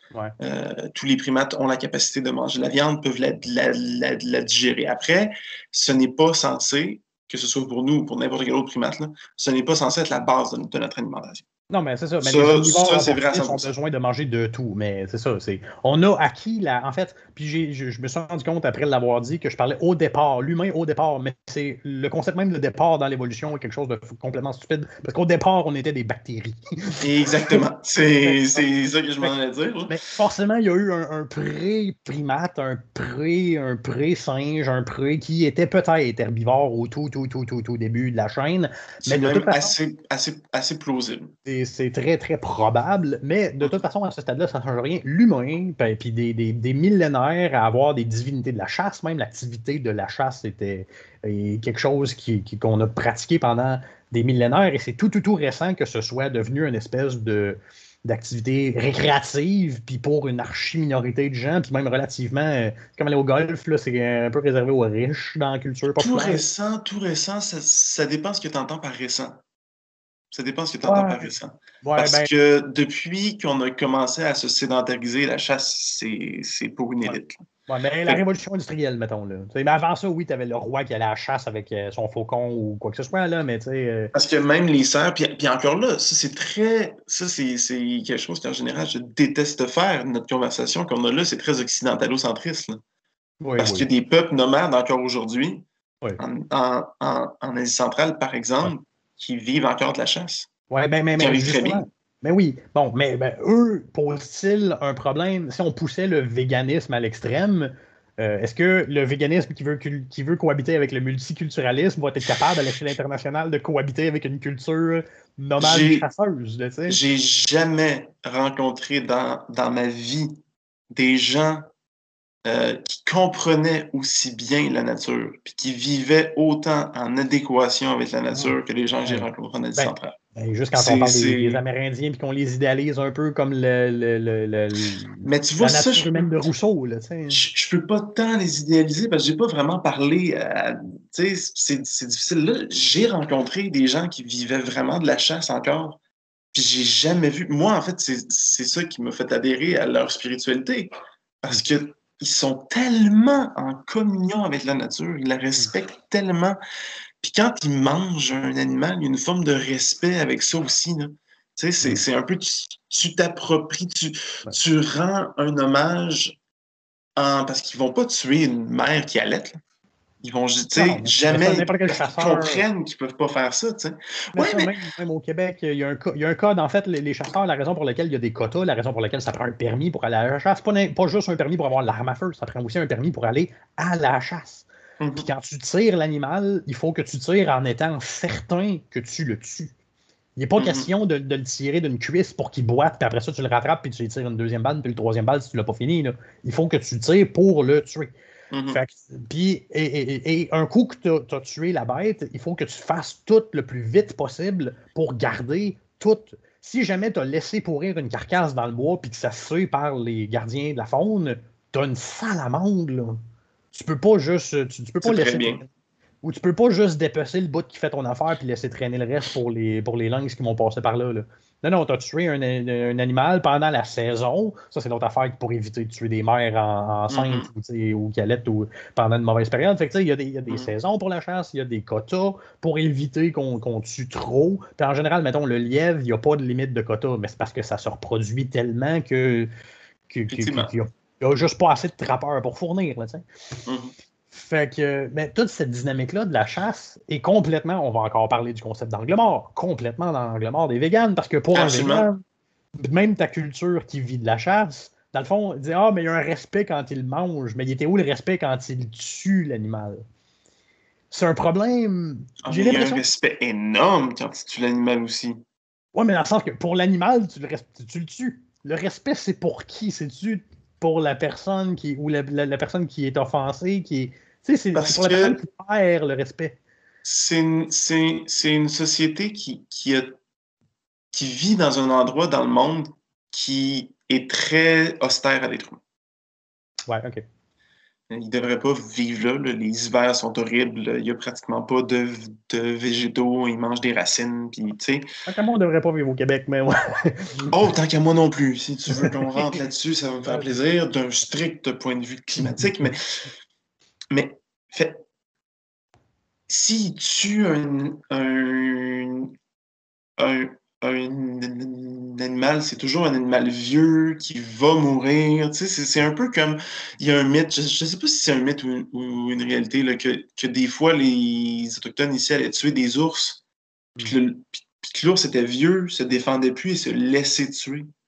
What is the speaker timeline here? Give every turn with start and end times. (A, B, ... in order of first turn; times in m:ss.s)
0:00.4-0:11.4 A
0:11.7-0:27.6 B
0:12.2-0:13.7 A
0:27.0-0:30.0 A
0:28.2-0:29.3 B
0:29.9-0:39.8 B
0:39.0-0:41.4 A
0:41.5-1:06.4 B
1:06.0-1:09.4 A
1:10.3-1:17.5 A
1:10.9-1:11.3 B
1:11.8-1:12.3 B
1:17.7-1:24.1 B
1:24.1-1:32.8 A
1:33.4-1:33.9 B
1:33.6-1:35.6 A
1:36.2-1:40.5 A
1:40.7-1:57.0 B
1:41.2-1:41.8 A
1:55.6-1:56.0 A
1:56.9-2:00.4 A
2:00.9-2:01.7 A
2:02.4-2:10.2 A
2:09.1-2:17.4 B
2:10.8-2:11.6 A
2:15.2-2:16.2 A
2:17.3-2:26.0 A
2:26.5-2:30.9 A
2:31.4-2:36.6 A
2:37.2-2:46.4 A
2:47.2-2:49.6 A
2:50.2-2:54.7 A
2:50.7-2:52.6 B
2:54.4-3:09.7 B
3:05.0-3:05.3 A
3:10.4-3:18.1 B
3:10.6-3:10.9 A
3:18.5-3:18.8 A
3:18.7-3:33.2 B
3:33.7-3:35.7 B
3:35.0-3:35.6 A
3:36.2-3:59.5 B
3:47.1-3:47.5 A
4:00.1-4:03.2 B
4:00.3-4:00.7 A
4:03.7-4:03.9 A
4:04.3-4:12.2 B
4:11.5-4:12.1 A
4:12.8-4:20.0 B
4:21.1-4:23.0 B
4:22.4-4:25.4 A
4:26.0-4:36.6 B
4:34.8-4:35.4 A
4:37.0-4:40.2 A
4:41.1-4:45.8 A
4:46.9-4:47.2 B
4:48.1-4:55.0 A
4:55.3-4:57.5 B
4:57.5-5:03.0 A
4:59.0-4:59.6 B
5:04.1-5:05.0 A
5:06.5-5:09.3 A
5:10.2-5:23.4 A
5:24.0-5:27.9 A